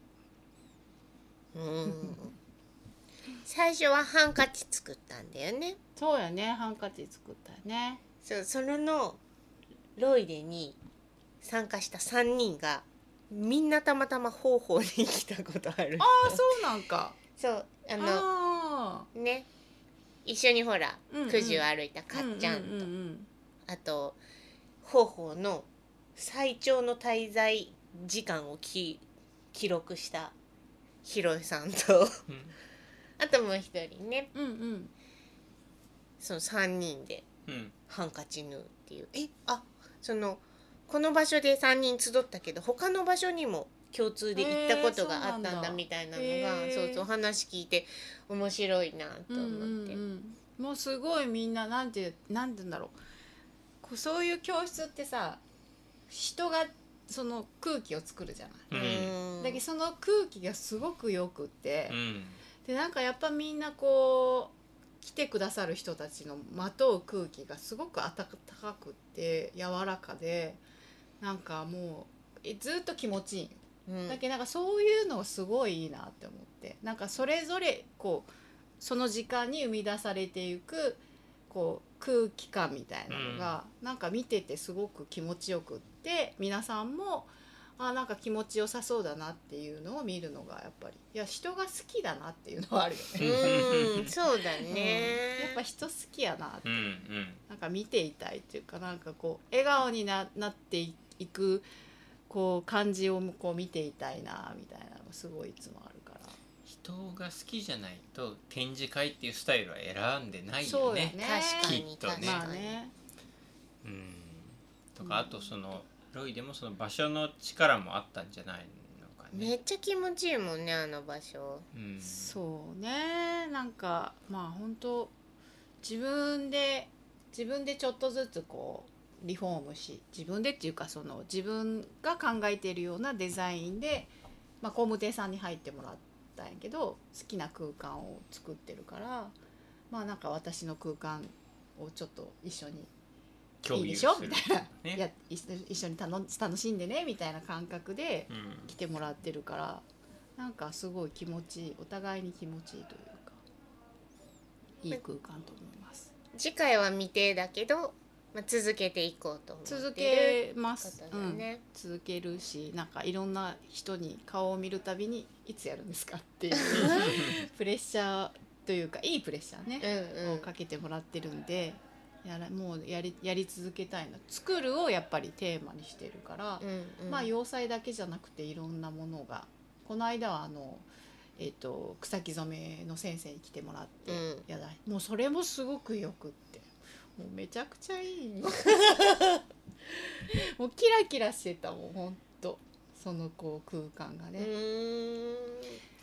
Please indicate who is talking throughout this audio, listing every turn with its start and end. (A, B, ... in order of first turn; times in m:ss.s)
0:01.5-0:02.3 A
0:01.9-0:02.2 B
0:03.4-0:05.8 A
0:06.0-0:08.0 B
0:08.2-0:09.2 A
0:10.0-0:10.8 A
0:11.4-0:16.6 A
0:16.0-0:17.2 B
0:17.4-0:18.3 A
0:18.0-0:19.1 B
0:19.1-0:19.5 A
0:20.2-0:22.9 A
0:21.1-0:23.3 B
0:23.7-0:24.2 A
0:24.8-0:30.3 A
0:31.0-0:32.2 A
0:32.3-0:32.5 C
0:33.2-0:34.3 A
0:34.3-0:34.9 B
0:36.2-0:37.2 A
0:37.5-0:37.7 C
0:37.9-0:50.0 A
0:44.3-0:47.0 B
0:49.3-0:53.0 B
0:53.8-0:55.4 B
0:56.1-1:02.0 B
0:58.7-0:59.1 C
0:58.7-0:59.6 A
1:01.9-1:02.4 C
1:02.6-1:10.6 B
1:11.2-1:33.8 B
1:13.9-1:14.2 A
1:23.1-1:23.6 C
1:33.2-1:34.1 C
1:33.2-1:35.6 A
1:34.7-1:41.6 B
1:36.6-1:37.4 C
1:42.3-1:46.4 B
1:46.6-1:52.4 C
1:50.6-1:52.9 B
1:51.2-1:52.8 A
1:53.8-1:59.5 C
1:55.0-1:55.6 B
1:59.3-2:01.7 A
2:01.7-2:02.4 C
2:02.0-2:05.1 B
2:05.8-2:19.3 B
2:19.9-2:22.9 B
2:23.6-2:25.0 C
2:23.7-2:29.8 B
2:28.3-2:28.7 C
2:30.4-2:33.4 B
2:34.8-2:36.1 B
2:36.3-2:41.6 A
2:39.6-3:09.1 B
2:46.5-2:47.2 A
2:46.8-2:47.3 C
2:49.8-2:50.5 A
2:56.6-2:57.3 A
3:04.1-3:04.4 A
3:08.9-3:09.3 A
3:10.3-3:14.5 B
3:14.4-3:15.8 A